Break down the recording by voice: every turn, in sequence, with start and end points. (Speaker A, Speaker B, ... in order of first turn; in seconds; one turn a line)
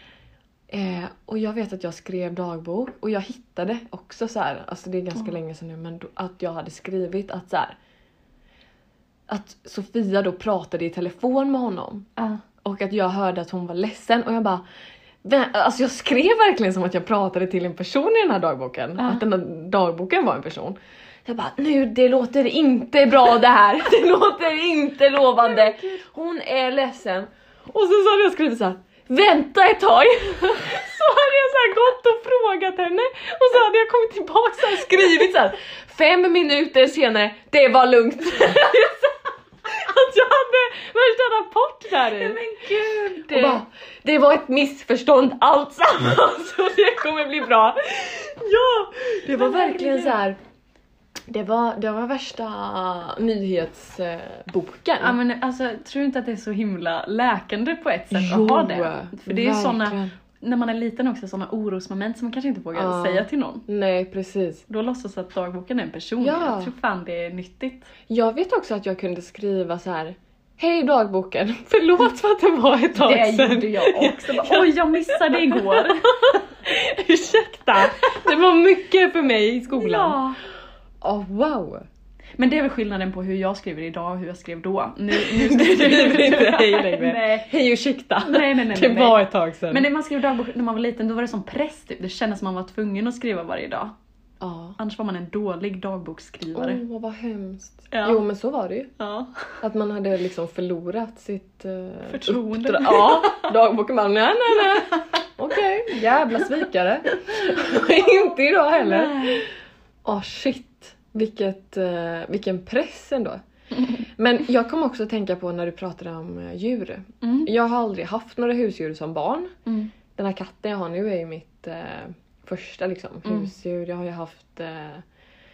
Speaker A: 0.7-7.8
Speaker A: 9.3-12.1
Speaker B: 12.2-12.4
Speaker A: 12.6-14.6
Speaker A: 15.2-42.4
Speaker B: 25.5-26.0
Speaker B: 42.0-43.6
Speaker A: 43.2-50.4
Speaker B: 49.3-50.2
Speaker A: 51.3-55.2
Speaker B: 55.0-63.7
Speaker A: 58.1-60.1
Speaker A: 62.7-64.7
Speaker B: 64.7-67.9
Speaker A: 66.2-66.7
Speaker A: 68.1-80.2
Speaker B: 73.0-76.4
Speaker B: 79.7-80.4
Speaker A: 81.0-81.9
Speaker B: 82.4-87.5
Speaker A: 85.1-89.9
Speaker B: 88.2-93.9
Speaker A: 94.4-94.8
Speaker B: 94.8-96.8
Speaker A: 96.6-98.9
Speaker B: 97.9-98.2
Speaker B: 99.0-99.6
Speaker A: 99.6-109.5
Speaker B: 102.1-103.5
Speaker B: 108.7-109.4
Speaker A: 110.0-113.4
Speaker A: 114.1-119.5
Speaker B: 117.2-117.5
Speaker B: 119.7-119.9
Speaker A: 120.2-125.0
Speaker B: 123.2-123.5